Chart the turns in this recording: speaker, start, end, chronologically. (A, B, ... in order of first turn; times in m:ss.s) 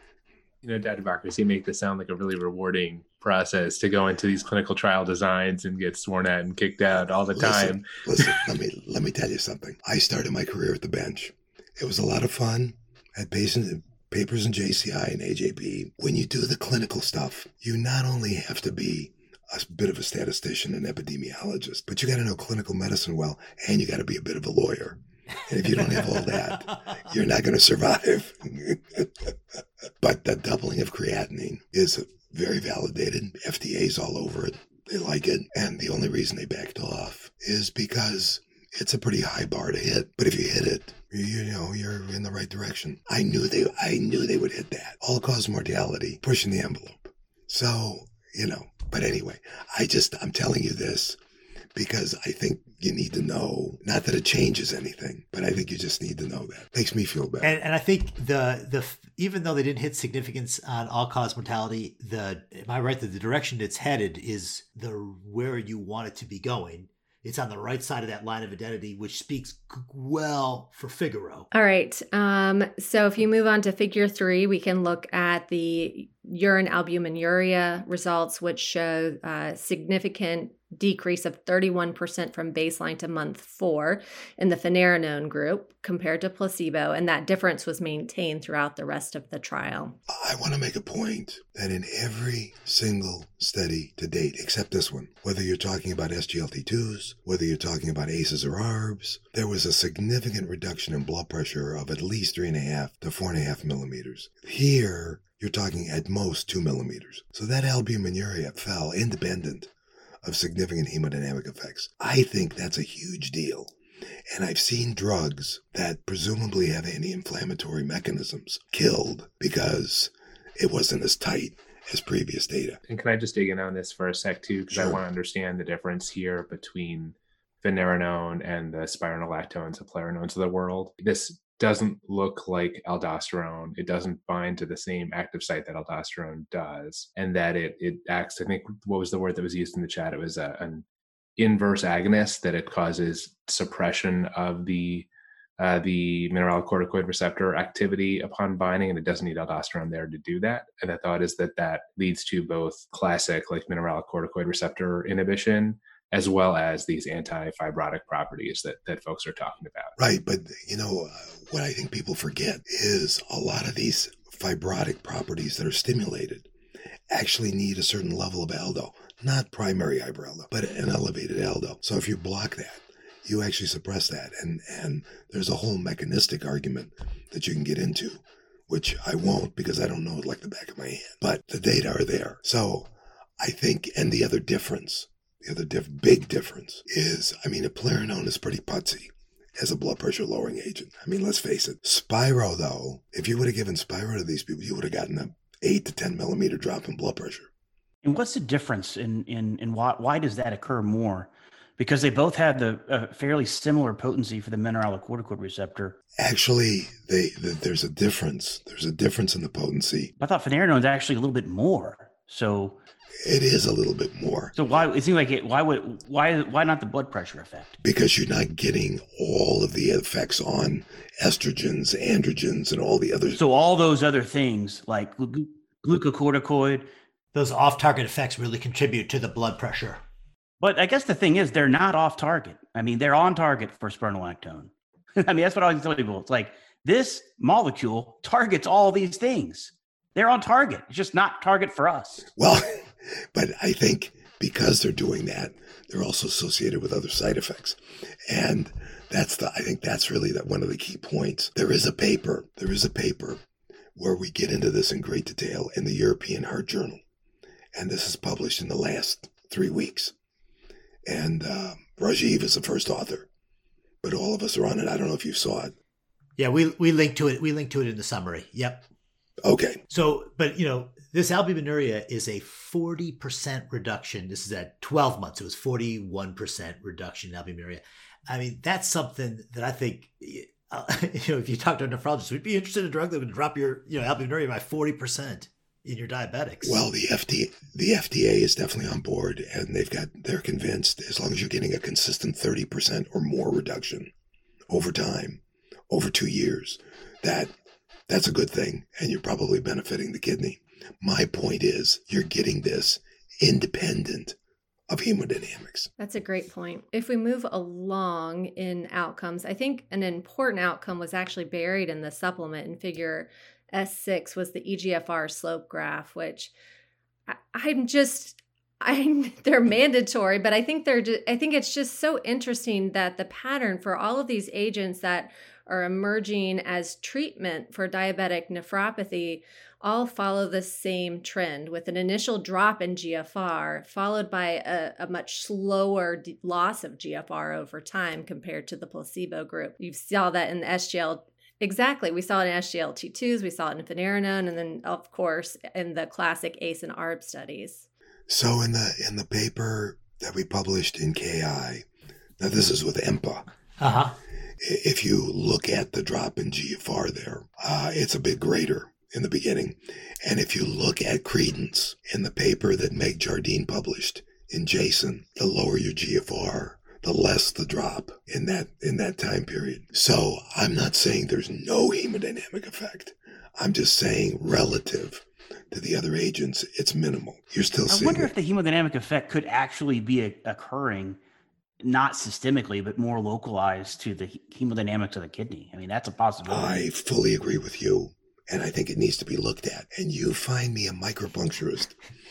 0:00.6-0:08.4 A
0:06.9-0:29.3 B
0:25.8-0:26.2 C
0:30.0-0:51.2 B
0:51.7-0:57.6 B
0:57.4-1:11.5 C
1:11.5-1:30.0 D
1:30.1-1:49.7 B
1:50.2-1:53.7 B
1:54.3-2:02.8 B
2:02.9-2:20.8 A
2:04.7-2:05.0 B
2:21.4-2:40.0 A
2:40.0-2:46.5 B
2:47.1-3:17.5 B
3:18.0-3:26.0 E
3:26.2-3:30.1 B
3:30.2-3:32.8 E
3:33.2-3:34.5 B
3:34.5-3:37.8 E
3:37.8-3:43.4 B
3:43.4-3:46.9 E
3:47.3-3:50.0 C
3:50.6-4:02.3 E
4:02.4-4:13.4 B
4:13.9-4:17.0 B
4:17.7-4:20.1 B
4:21.0-4:23.3 B
4:24.0-4:25.7 B
4:26.4-4:28.9 C
4:29.4-4:29.8 B
4:29.9-4:46.8 C
4:46.6-4:54.1 B
4:54.7-4:57.5 B
4:58.1-5:04.4 B
5:04.9-5:05.9 B
5:06.0-5:16.5 D
5:17.3-5:47.8 D
5:48.3-5:51.8 B
5:52.4-5:53.4 B
5:53.8-5:54.1 C
5:54.6-6:18.3 B
6:17.9-6:21.2 E
6:21.8-6:26.8 E
6:26.5-6:31.9 B